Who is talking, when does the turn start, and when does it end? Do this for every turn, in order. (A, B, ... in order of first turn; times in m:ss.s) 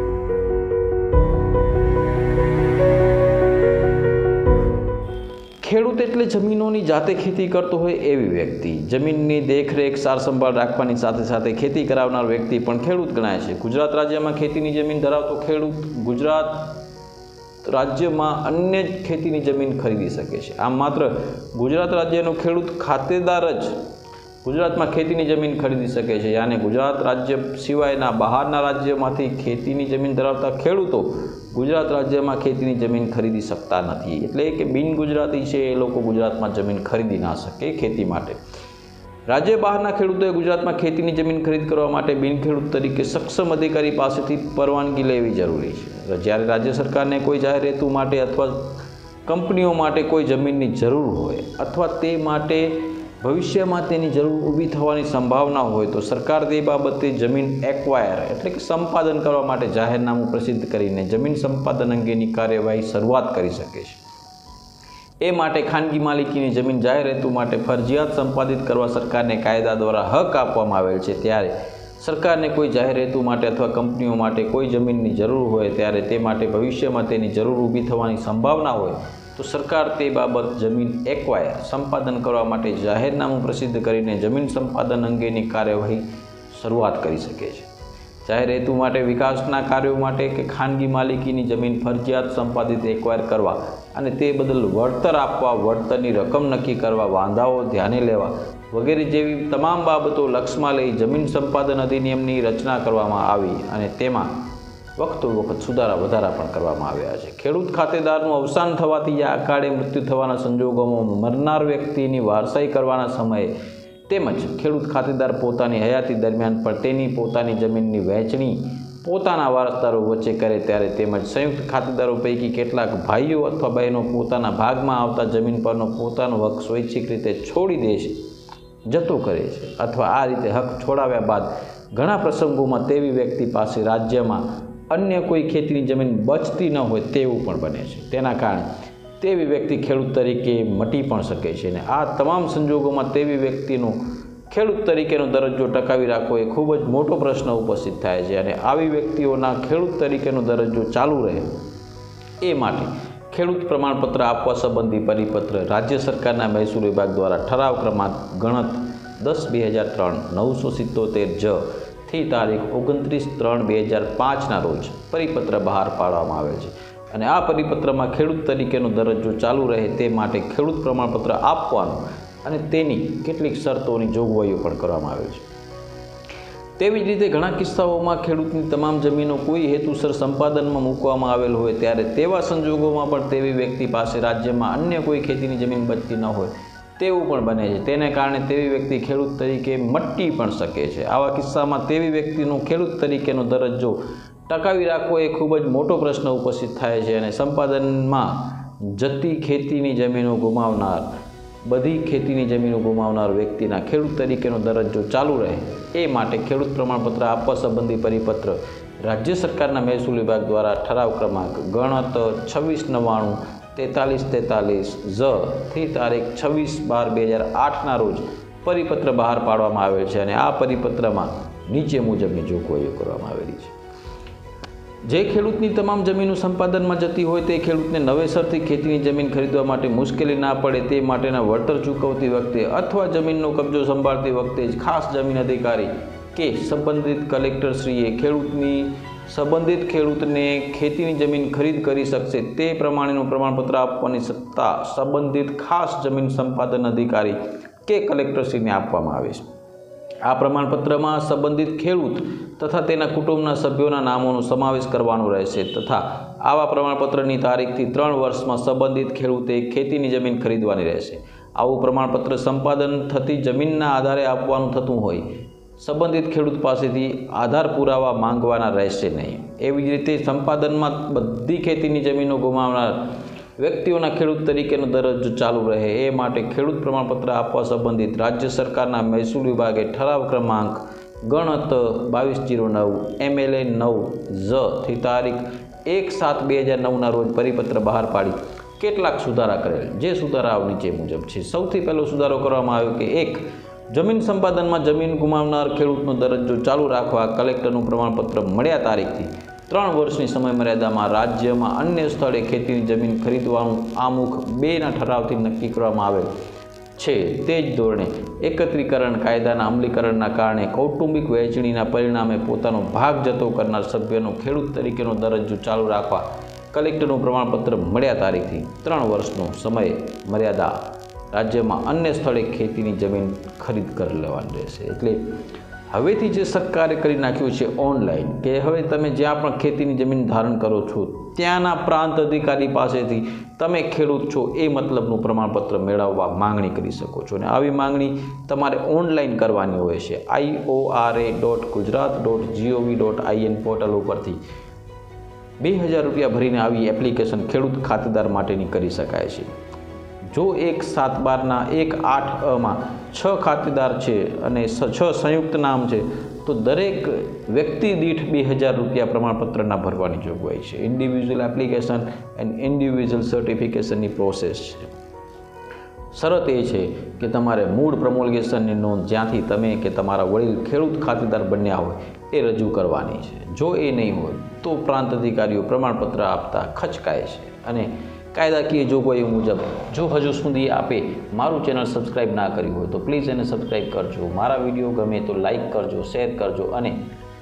0:05.6-0:16.8 A
0:17.6-0:23.8 A
0:24.4-0:38.4 A
0:39.3-1:04.0 A
1:05.2-1:27.7 A
1:28.2-1:44.3 A
1:45.0-1:53.5 A
1:54.1-2:08.2 A
2:08.9-2:18.7 A
2:19.2-2:31.5 A
2:32.4-2:55.4 A
2:56.8-3:21.1 A
3:21.6-3:43.7 A
3:45.0-4:09.5 A
4:10.2-5:06.3 A
5:07.0-5:25.3 A
5:25.9-5:44.4 A
5:45.6-5:49.5 A
5:50.3-6:04.9 A
6:06.1-6:27.0 A